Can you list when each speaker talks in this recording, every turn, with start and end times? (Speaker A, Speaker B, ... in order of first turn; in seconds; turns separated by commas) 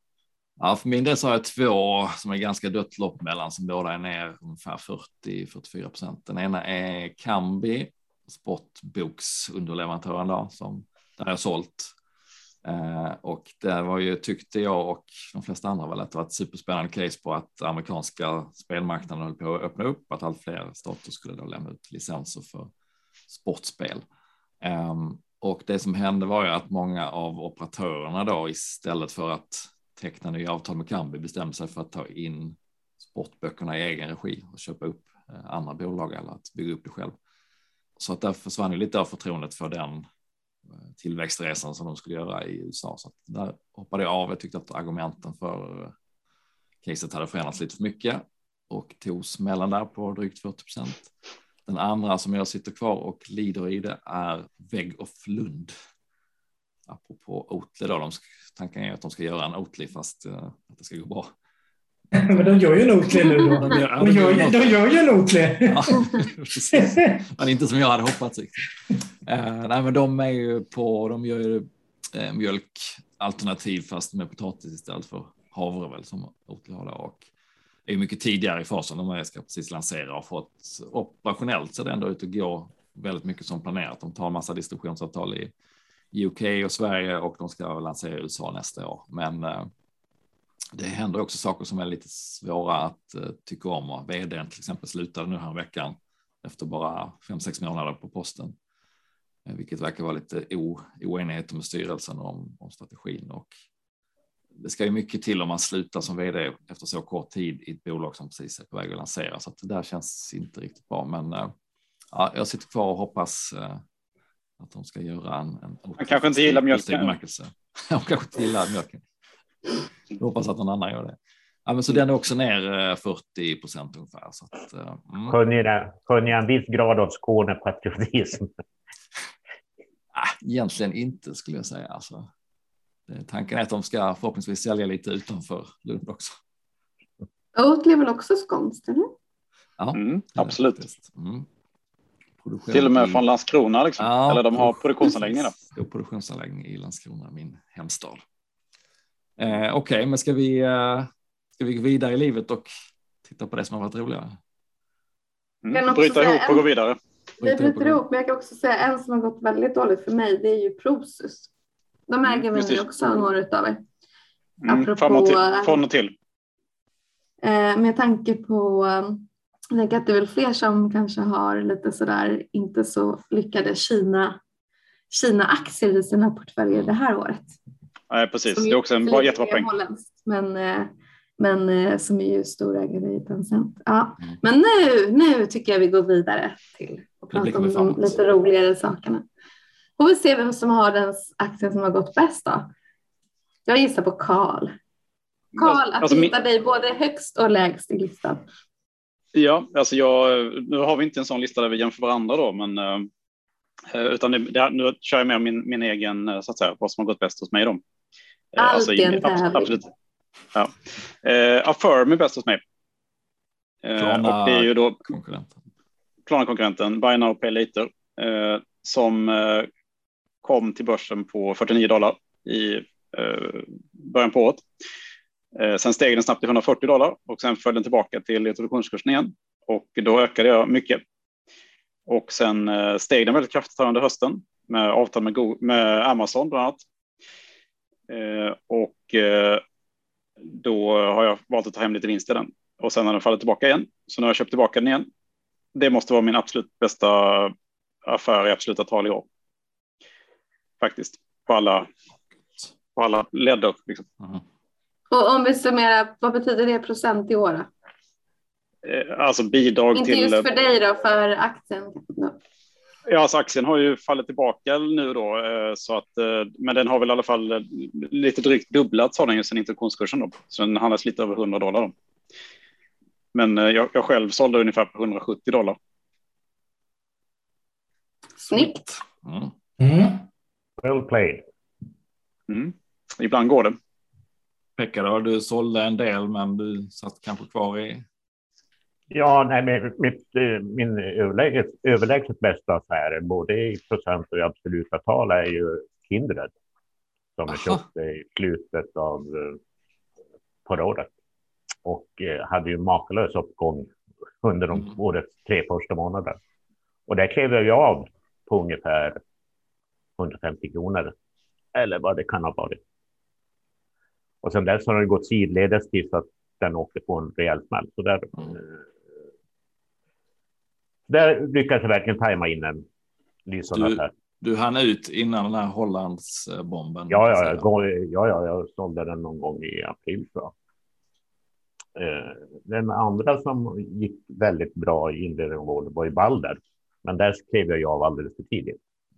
Speaker A: 0.6-11.9, Speaker A: 12.6-22.7, Speaker A: 23.3-24.0, Speaker A: 24.6-37.1, Speaker A: 38.0-40.0, Speaker A: 40.9-45.9, Speaker A: 46.8-51.1, Speaker A: 51.6-55.7, Speaker A: 56.9-61.3, Speaker B: 62.1-67.2, Speaker A: 62.3-62.5, Speaker A: 63.4-64.8, Speaker A: 65.6-68.6, Speaker A: 69.2-77.2, Speaker A: 77.8-85.5, Speaker A: 86.1-89.7, Speaker A: 90.8-98.5, Speaker A: 99.5-103.5, Speaker A: 104.6-111.5, Speaker A: 112.1-113.8, Speaker A: 114.6-119.0, Speaker C: 116.0-117.1, Speaker A: 120.2-125.4, Speaker D: 125.3-128.5, Speaker A: 130.1-132.3, Speaker A: 133.1-136.4, Speaker E: 137.5-139.1, Speaker A: 139.8-141.5, Speaker C: 139.9-140.8, Speaker A: 142.4-143.2, Speaker C: 142.7-145.6, Speaker A: 144.0-148.2, Speaker A: 149.4-152.7, Speaker A: 153.2-154.4, Speaker C: 155.6-157.0, Speaker E: 155.7-156.7, Speaker A: 157.4-158.0, Speaker E: 157.4-161.5, Speaker E: 162.1-163.8, Speaker C: 162.2-162.8, Speaker C: 164.6-166.1, Speaker E: 164.7-165.8, Speaker E: 167.4-174.4, Speaker E: 175.1-177.6, Speaker C: 178.1-179.7, Speaker E: 178.5-189.2, Speaker A: 187.3-188.1, Speaker E: 190.0-192.7, Speaker E: 193.7-194.7, Speaker C: 195.6-196.3, Speaker E: 195.6-198.4, Speaker C: 199.3-203.1, Speaker C: 203.9-207.8, Speaker C: 208.5-209.9, Speaker E: 208.6-209.8, Speaker C: 210.5-212.6, Speaker C: 213.8-215.0, Speaker A: 214.0-215.6, Speaker C: 216.3-219.7, Speaker C: 220.4-224.6, Speaker C: 225.5-231.0, Speaker C: 232.1-236.8, Speaker C: 238.1-239.6, Speaker C: 240.5-245.1, Speaker C: 245.7-247.5, Speaker C: 248.1-249.2, Speaker C: 250.8-251.9, Speaker C: 252.9-254.1, Speaker E: 255.1-257.7, Speaker C: 258.8-260.4, Speaker E: 259.9-262.4, Speaker C: 263.1-271.9, Speaker C: 273.3-275.8, Speaker A: 278.4-279.5, Speaker B: 279.8-280.2, Speaker D: 280.8-281.4, Speaker C: 282.5-283.8, Speaker A: 284.8-288.0, Speaker D: 289.1-296.5, Speaker D: 297.4-299.6, Speaker A: 297.5-297.8, Speaker D: 300.6-301.1, Speaker D: 301.8-303.9, Speaker D: 304.4-306.4, Speaker D: 307.1-309.2, Speaker D: 310.2-311.1, Speaker D: 311.7-312.8, Speaker D: 314.4-318.8, Speaker D: 321.1-322.9, Speaker D: 323.5-324.1, Speaker A: 323.7-327.7, Speaker D: 327.1-330.5, Speaker D: 331.9-338.8